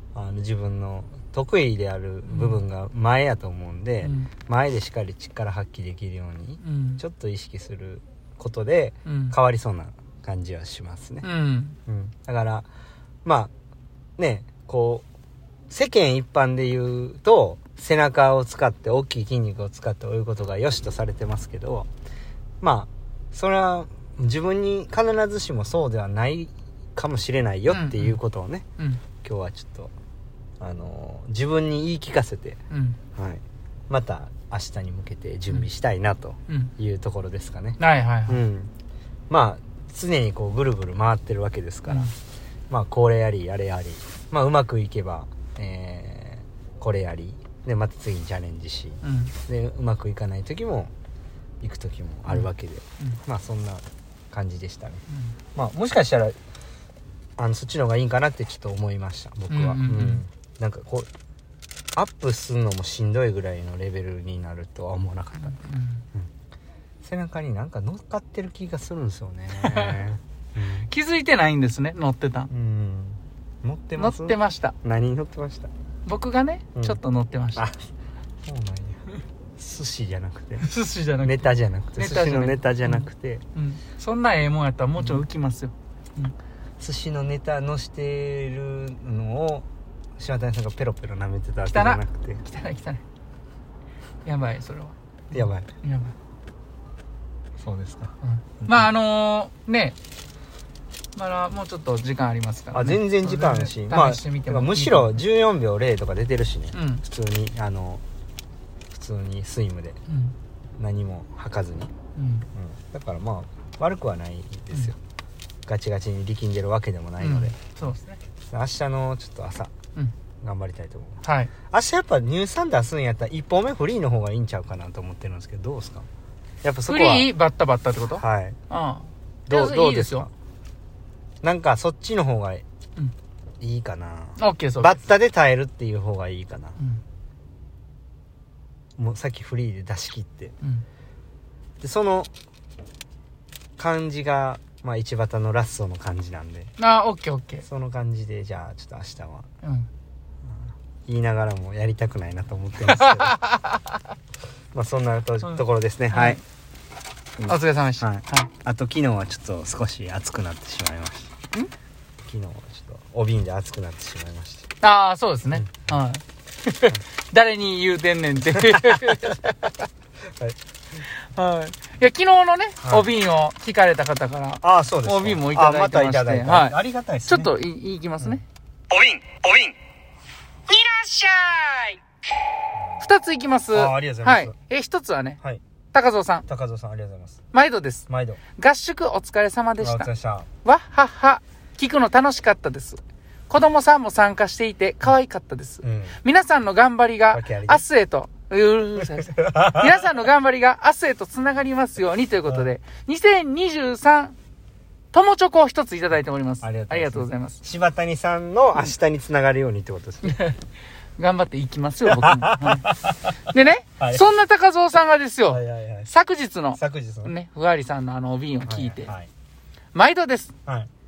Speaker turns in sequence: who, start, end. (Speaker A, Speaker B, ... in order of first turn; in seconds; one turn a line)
Speaker A: 0.1-11.3
Speaker B: 2.3-2.6
Speaker B: 4.0-4.3
Speaker B: 6.6-7.0
Speaker B: 9.0-9.4
Speaker B: 11.2-11.8
Speaker A: 11.9-12.7
Speaker A: 13.2-13.5
Speaker A: 14.2-15.0
Speaker A: 15.7-21.9
Speaker A: 22.6-28.6
Speaker B: 27.7-28.1
Speaker A: 29.2-29.9
Speaker A: 30.6-32.6
Speaker B: 32.7-33.0
Speaker A: 33.1-38.7
Speaker B: 36.5-36.7
Speaker B: 37.8-38.4
Speaker A: 39.3-42.1
Speaker B: 41.9-42.1
Speaker A: 42.7-50.9
Speaker B: 49.0-49.3
Speaker A: 51.6-55.0
Speaker A: 55.5-56.4
Speaker A: 57.4-61.1
Speaker B: 59.5-60.2
Speaker A: 62.0-65.6
Speaker B: 65.4-66.0
Speaker A: 67.0-70.9
Speaker B: 69.5-70.0
Speaker B: 70.8-72.5
Speaker A: 72.5-75.7
Speaker B: 74.0-74.8
Speaker B: 76.0-77.6
Speaker A: 77.5-77.9
Speaker A: 78.4-79.0
Speaker A: 79.6-80.7
Speaker B: 80.6-86.3
Speaker A: 81.2-83.4
Speaker A: 86.8-89.7
Speaker A: 90.2-92.4
Speaker B: 91.7-93.0
Speaker B: 94.2-96.1
Speaker A: 95.3-95.7
Speaker A: 97.6-98.9
Speaker B: 98.2-100.0
Speaker B: 101.2-105.2
Speaker A: 102.7-108.0
Speaker B: 106.7-107.0
Speaker A: 108.9-110.0
Speaker B: 110.1-110.3
Speaker A: 110.8-111.9
Speaker B: 112.2-112.5
Speaker A: 112.5-115.0
Speaker A: 115.7-117.5
Speaker B: 117.2-118.2
Speaker A: 118.5-119.7
Speaker A: 120.4-126.0
Speaker B: 121.2-121.5
Speaker A: 126.6-127.3
Speaker B: 126.9-130.3
Speaker A: 128.1-128.6
Speaker A: 129.5-130.3
Speaker A: 131.4-132.6
Speaker A: 133.6-136.8
Speaker B: 134.4-135.0
Speaker A: 139.0-140.5
Speaker A: 141.8-142.3
Speaker A: 143.8-146.7
Speaker B: 146.8-147.6
Speaker A: 147.6-149.5
Speaker B: 149.6-149.9
Speaker A: 151.1-153.4
Speaker B: 152.9-153.8
Speaker A: 154.7-156.4
Speaker B: 155.5-156.4
Speaker A: 157.4-161.3
Speaker B: 157.5-158.5
Speaker A: 162.2-164.7
Speaker B: 164.8-169.8
Speaker A: 168.5-169.4
Speaker B: 171.3-178.4
Speaker A: 172.8-173.1
Speaker A: 174.6-177.5
Speaker A: 178.2-179.7
Speaker B: 180.7-182.0
Speaker B: 183.0-185.4
Speaker A: 183.7-184.5
Speaker B: 185.9-186.4
Speaker A: 186.5-187.4
Speaker B: 187.5-190.1
Speaker A: 188.1-188.4
Speaker A: 189.8-190.5
Speaker B: 190.6-204.4
Speaker A: 195.8-196.2
Speaker A: 197.3-197.8
Speaker A: 199.2-200.0
Speaker B: 205.1-207.6
Speaker A: 206.6-210.4
Speaker B: 210.2-210.6
Speaker B: 211.2-219.1
Speaker A: 212.1-213.1
Speaker A: 215.5-216.1
Speaker A: 216.8-217.3
Speaker A: 218.7-219.3
Speaker B: 219.9-220.5